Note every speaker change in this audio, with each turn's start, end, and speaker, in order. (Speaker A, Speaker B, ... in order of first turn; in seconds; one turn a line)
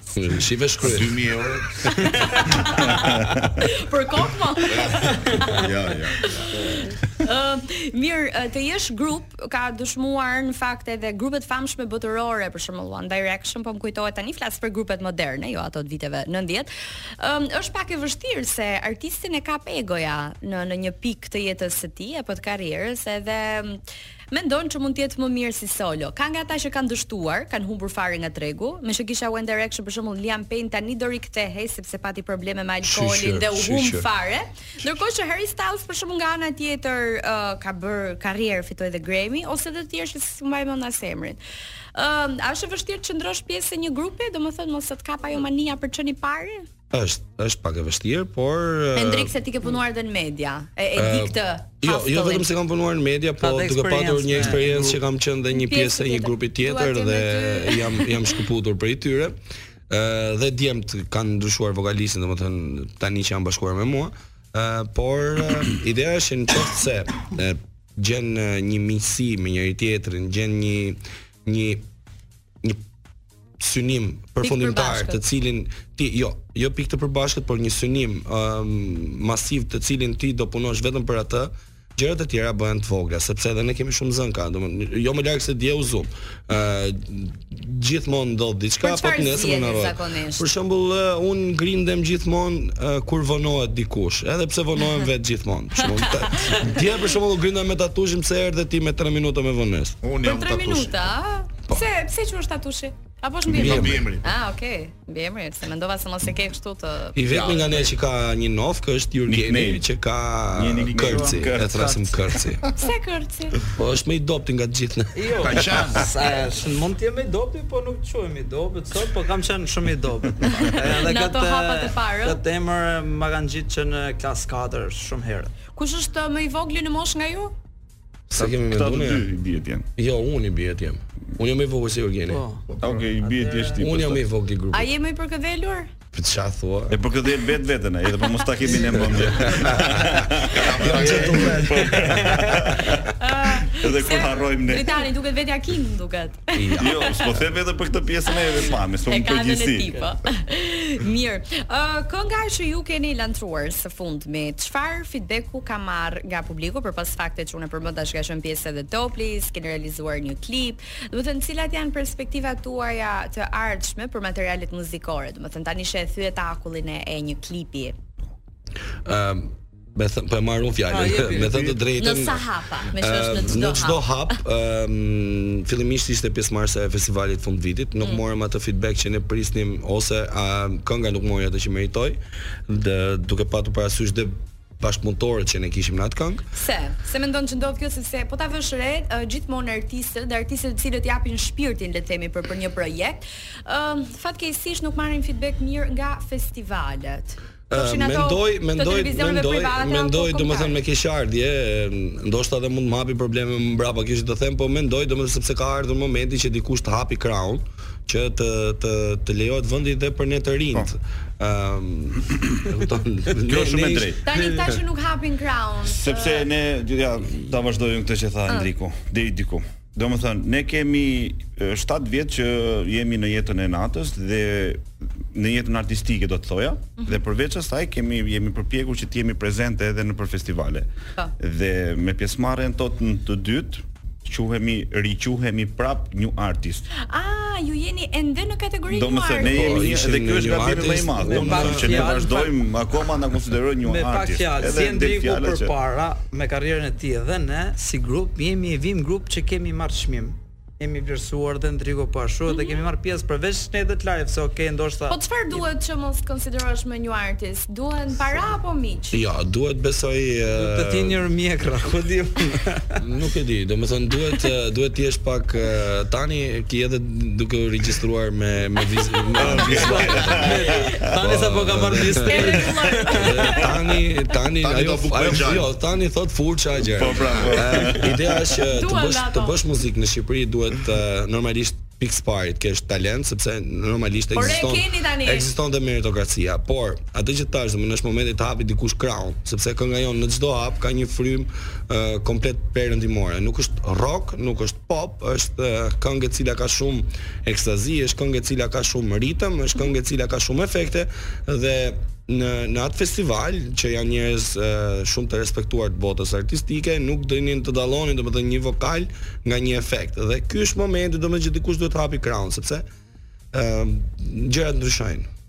Speaker A: 0.1-1.2
Speaker B: 0.8-2.4
Speaker C: 1.8-5.7
Speaker D: 2.8-3.7
Speaker B: 4.6-6.5
Speaker C: 6.2-41.4
Speaker A: 32.8-34.1
Speaker C: 42.0-46.7
Speaker A: 46.9-49.3
Speaker C: 49.0-52.5
Speaker A: 51.0-59.4
Speaker E: 53.4-55.0
Speaker C: 55.5-58.3
Speaker A: 59.9-71.8
Speaker A: 73.6-100.0
Speaker C: 74.4-75.2
Speaker C: 88.8-90.5
Speaker C: 95.8-96.8
Speaker B: 100.0-101.1
Speaker C: 100.2-107.8
Speaker A: 103.5-104.0
Speaker B: 103.6-104.3
Speaker A: 107.2-112.7
Speaker B: 107.3-107.7
Speaker D: 109.3-109.8
Speaker D: 110.5-112.4
Speaker C: 112.8-113.6
Speaker A: 113.7-116.1
Speaker E: 115.2-125.5
Speaker B: 115.4-116.1
Speaker C: 120.5-122.4
Speaker C: 125.8-127.5
Speaker A: 128.3-129.3
Speaker D: 128.4-129.9
Speaker A: 130.0-132.4
Speaker E: 132.3-132.7
Speaker B: 132.7-133.1
Speaker D: 132.8-134.2
Speaker E: 133.2-133.8
Speaker A: 133.8-134.9
Speaker C: 134.7-135.9
Speaker A: 136.1-137.0
Speaker D: 136.9-145.1
Speaker A: 138.7-140.1
Speaker B: 140.5-141.7
Speaker A: 140.8-142.1
Speaker E: 141.0-142.8
Speaker C: 143.2-147.3
Speaker A: 146.6-147.2
Speaker D: 146.8-150.1
Speaker C: 148.3-167.9
Speaker A: 169.1-186.4
Speaker E: 170.9-171.7
Speaker C: 172.0-174.1
Speaker C: 186.5-200.8
Speaker A: 197.7-214.6
Speaker D: 213.4-214.3
Speaker C: 214.2-216.5
Speaker D: 215.9-230.9
Speaker D: 231.4-236.9
Speaker C: 237.0-239.9
Speaker D: 238.9-245.7
Speaker A: 239.4-242.1
Speaker E: 241.2-242.7
Speaker E: 243.8-255.6
Speaker C: 252.5-252.9
Speaker C: 255.1-259.2
Speaker A: 259.1-261.2
Speaker E: 260.5-263.0
Speaker A: 263.0-312.9
Speaker D: 269.4-271.2
Speaker E: 269.6-273.6
Speaker C: 270.6-270.9
Speaker C: 272.1-274.0
Speaker B: 274.6-275.7
Speaker D: 276.9-278.4
Speaker C: 278.6-279.6
Speaker C: 284.3-285.5
Speaker A: 313.5-315.3